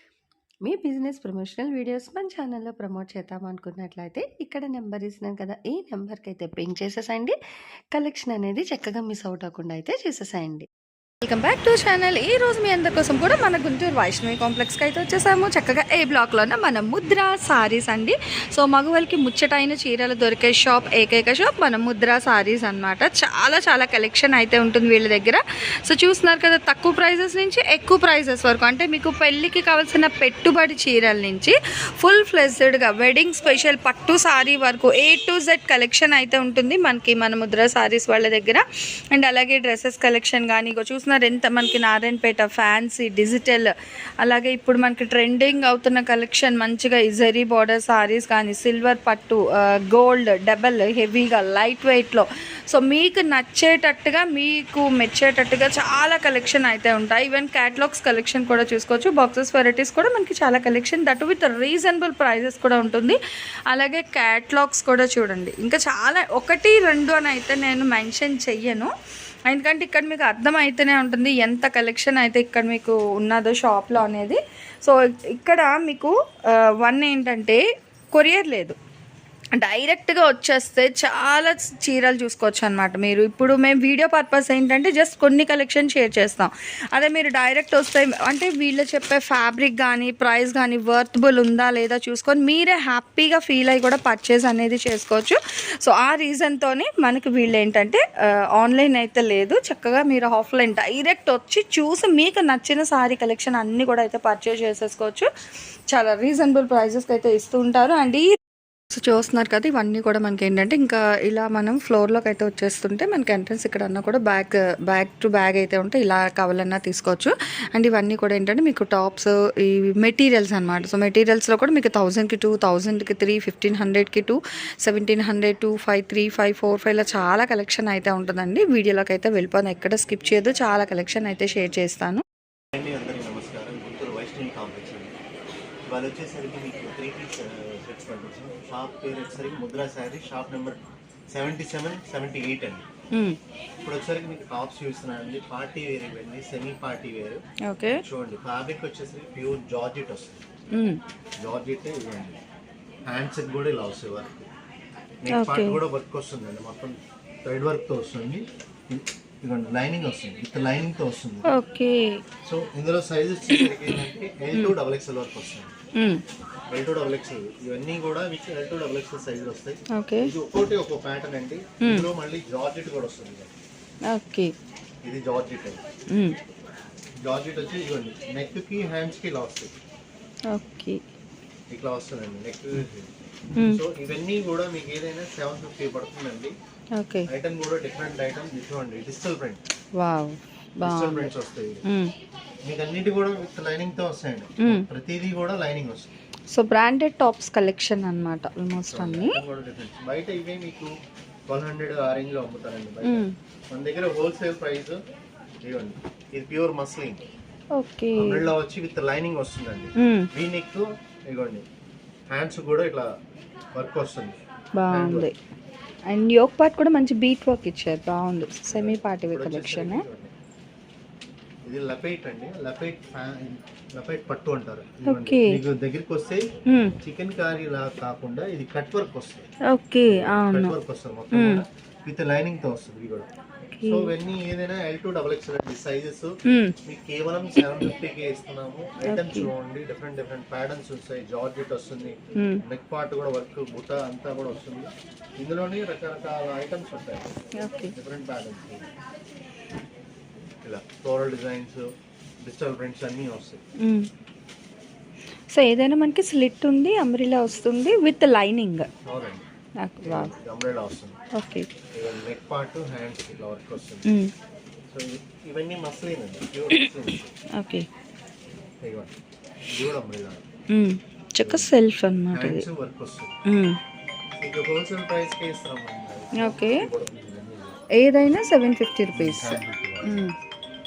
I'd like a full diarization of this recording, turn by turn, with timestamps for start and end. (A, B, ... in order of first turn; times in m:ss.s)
0:00.6-0:07.4 A
0:07.9-0:10.7 A
0:11.2-1:03.2 B
1:03.7-1:08.9 B
1:09.5-1:18.8 B
1:19.5-1:45.3 B
1:45.9-1:48.3 B
1:48.9-2:12.2 B
2:12.7-2:15.2 C
2:15.9-2:20.8 C
2:21.3-2:22.9 C
2:23.1-2:23.4 B
2:23.8-2:27.4 C
2:27.7-2:28.0 B
2:27.9-2:30.4 C
2:30.7-2:31.0 B
2:31.4-2:32.4 C
2:33.1-2:34.5 C
2:35.2-2:41.6 C
2:35.3-2:35.8 B
2:41.5-2:42.2 B
2:42.4-2:45.7 C
2:46.7-2:53.5 C
2:49.9-2:50.3 B
2:54.1-2:54.5 B
2:55.0-2:55.8 C
2:56.1-2:56.4 B
2:57.2-2:59.8 C
3:00.5-3:01.0 B
3:01.7-3:06.6 C
3:07.0-3:07.3 B
3:07.3-3:09.6 C
3:10.0-3:11.3 B
3:10.8-3:11.8 C
3:11.9-3:12.1 B
3:12.7-3:16.1 C
3:16.5-3:19.4 B
3:18.8-3:20.9 C
3:21.5-3:25.0 C
3:23.0-3:23.3 B
3:25.6-3:27.2 C
3:27.8-3:28.5 B
3:28.1-3:31.7 C
3:30.0-3:30.3 B
3:32.3-3:33.2 C
3:33.7-3:34.4 C
3:34.8-3:35.3 B
3:34.9-3:35.3 C
3:36.1-3:40.0 B
3:38.7-3:40.3 C
3:41.7-3:49.5 C
3:45.1-3:45.6 B
3:46.7-3:47.0 B
3:49.7-3:50.8 B
3:50.1-3:53.3 C
3:51.3-3:51.6 B
3:53.8-3:54.1 B
3:53.9-4:07.3 C
3:56.5-3:56.8 B
3:59.1-3:59.5 B
4:02.4-4:02.6 B
4:07.6-4:07.9 B
4:07.8-4:08.9 C
4:10.6-4:13.6 C
4:13.8-4:14.1 B
4:15.5-4:18.9 B
4:19.0-4:19.4 C
4:19.8-4:20.3 B
4:20.0-4:21.2 C
4:21.3-4:21.7 B
4:21.9-4:24.1 C
4:24.9-4:27.4 C
4:27.6-4:27.9 B
4:28.8-4:29.1 C
4:29.7-4:30.4 C
4:30.7-4:32.6 B
4:31.4-4:31.7 C
4:32.3-4:33.4 C
4:33.5-4:33.8 B
4:34.4-4:37.8 C
4:36.4-4:36.9 B
4:38.0-4:40.3 B
4:39.1-4:40.3 C